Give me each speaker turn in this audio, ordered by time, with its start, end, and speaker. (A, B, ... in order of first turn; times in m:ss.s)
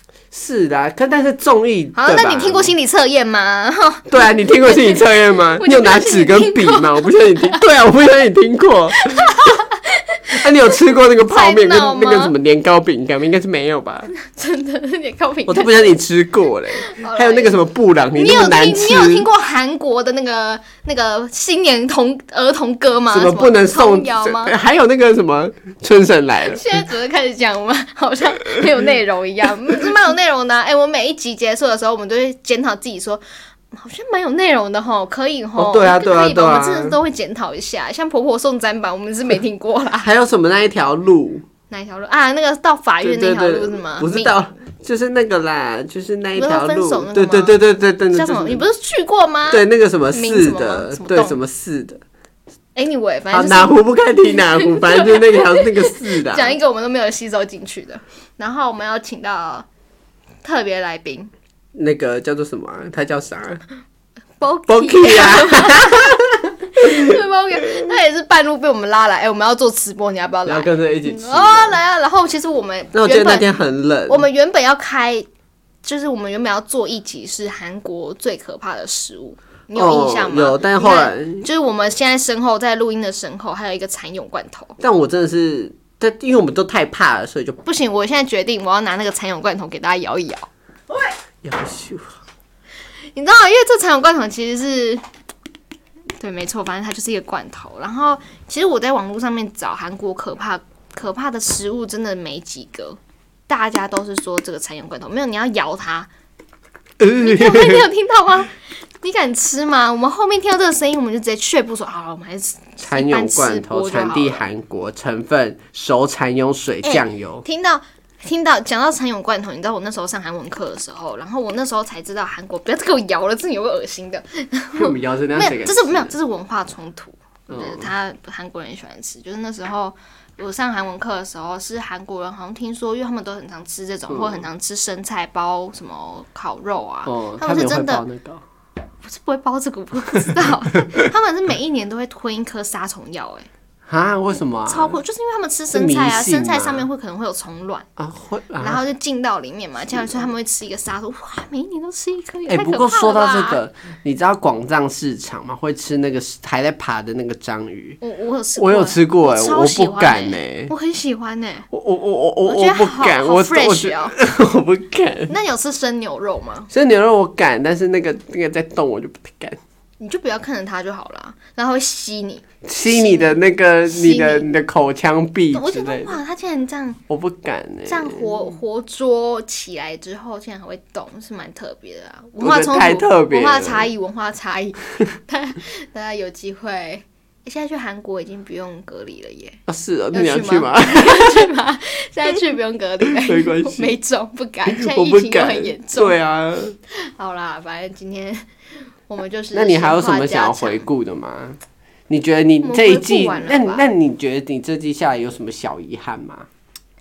0:00.3-0:02.7 A
0:01.9-0:07.6 B
0:04.1-0:09.4 A
0:09.0-0:12.3 B
0:10.3-0:14.1 A
0:14.2-0:16.0 B
0:15.5-0:19.3 A
0:16.8-0:17.6 B
0:18.1-0:24.6 B
0:23.1-0:26.6 A
0:26.4-0:40.1 B
0:35.6-0:37.0 A
0:40.0-0:41.4 A
0:41.7-0:44.4 B
0:43.0-0:48.6 A
0:46.3-0:47.6 B
0:48.1-0:51.4 B
0:49.5-0:52.0 A
0:52.7-0:59.6 B
0:53.3-0:56.6 A
1:00.4-1:01.3 B
1:01.7-1:03.6 A
1:04.4-1:06.2 B
1:04.7-1:07.2 A
1:06.7-1:13.5 B
1:10.4-1:11.8 A
1:12.9-1:14.2 A
1:14.1-1:15.3 B
1:15.8-1:24.8 B
1:19.7-1:21.5 A
1:24.8-1:27.6 A
1:27.6-1:30.5 B
1:30.9-1:32.2 A
1:33.1-1:35.0 B
1:36.2-1:46.1 B
1:47.0-1:47.9 A
1:47.2-1:54.5 B
1:52.8-1:57.4 A
1:56.8-2:18.0 B
2:04.7-2:06.1 A
2:07.5-2:07.9 A
2:14.1-2:14.4 A
2:17.0-2:18.4 A
2:19.0-2:23.5 B
2:23.8-2:25.0 A
2:24.7-2:27.9 B
2:25.7-2:26.8 A
2:28.0-2:28.8 A
2:28.6-2:33.6 B
2:29.9-2:30.3 A
2:32.5-2:38.0 A
2:38.0-2:41.7 B
2:38.6-2:40.7 A
2:41.7-2:45.3 A
2:42.4-2:44.2 B
2:45.3-2:46.7 B
2:46.7-2:49.6 A
2:50.0-2:54.5 B
2:52.6-2:56.2 A
2:55.5-2:57.0 B
2:57.1-2:58.5 A
2:57.8-3:09.6 B
3:02.4-3:03.9 A
3:09.7-3:11.5 A
3:10.1-3:16.2 B
3:13.1-3:13.9 A
3:14.6-3:16.8 A
3:16.9-3:18.5 B
3:19.1-3:20.8 B
3:19.5-3:26.5 A
3:22.6-3:23.8 B